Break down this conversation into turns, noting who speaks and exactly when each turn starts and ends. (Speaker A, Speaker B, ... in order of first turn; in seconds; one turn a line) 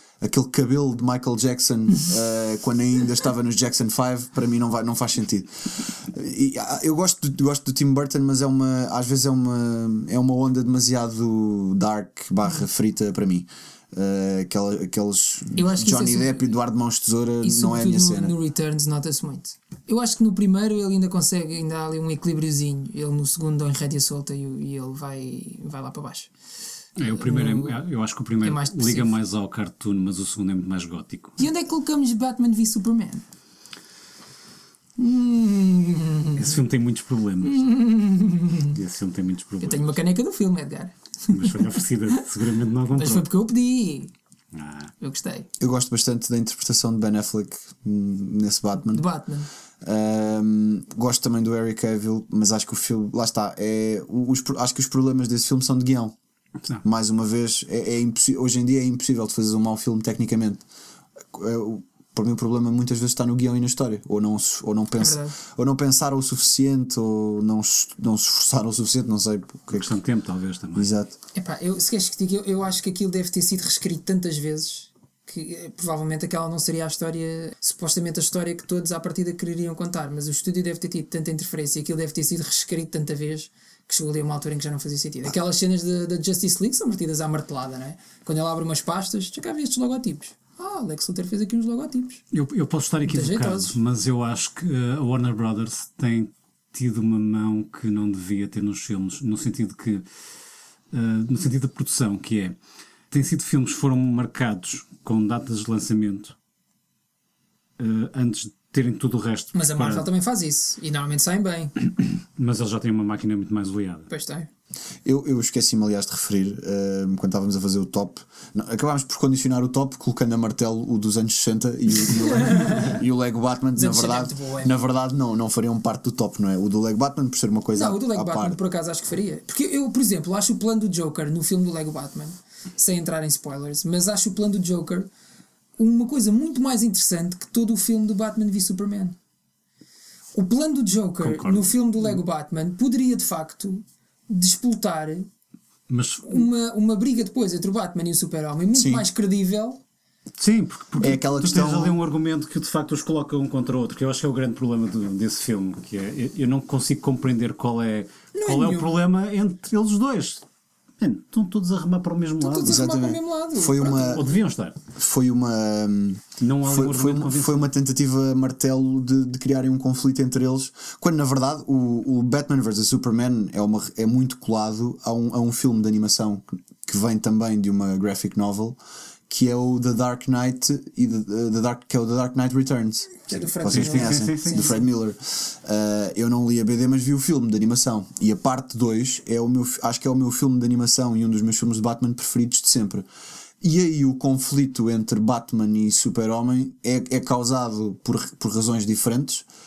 Speaker A: 0.2-18.3
Speaker B: 15.6-16.5
Speaker B: 17.4-26.3
Speaker C: 27.0-31.4
Speaker B: 27.1-27.8
Speaker B: 28.4-29.1
Speaker B: 31.4-33.2
Speaker B: 35.0-36.6
Speaker C: 36.4-37.6
Speaker B: 37.4-38.8
Speaker C: 38.7-40.0
Speaker B: 39.6-42.2
Speaker C: 41.3-43.3
Speaker B: 43.0-44.1
Speaker C: 44.5-44.9
Speaker B: 45.0-45.5
Speaker A: 45.6-49.0
Speaker B: 48.9-49.5
Speaker A: 49.8-56.1
Speaker A: 56.8-60.6
Speaker A: 61.3-70.0
Speaker B: 65.0-65.3
Speaker C: 69.7-70.9
Speaker A: 70.8-71.2
Speaker B: 71.3-92.2
Speaker C: 92.3-100.1
Speaker B: 93.1-93.8
Speaker C: 100.9-102.6
Speaker C: 103.1-106.3
Speaker C: 107.8-110.1
Speaker B: 109.5-111.7
Speaker C: 112.0-114.1
Speaker B: 114.1-114.5
Speaker A: 115.0-128.6
Speaker B: 122.2-123.0
Speaker B: 123.8-124.8
Speaker B: 127.7-135.1
Speaker B: 135.8-139.2
Speaker B: 140.3-145.3
Speaker C: 141.2-142.1
Speaker C: 145.9-146.5
Speaker B: 146.3-149.8
Speaker A: 148.7-149.1
Speaker C: 150.4-160.4
Speaker A: 151.0-152.0
Speaker B: 158.3-158.9
Speaker C: 161.0-162.8
Speaker B: 162.4-164.1
Speaker A: 162.6-164.2
Speaker C: 163.9-164.8
Speaker A: 164.9-193.1
Speaker C: 166.4-167.7
Speaker B: 183.3-184.8
Speaker C: 183.7-184.7
Speaker A: 193.6-199.5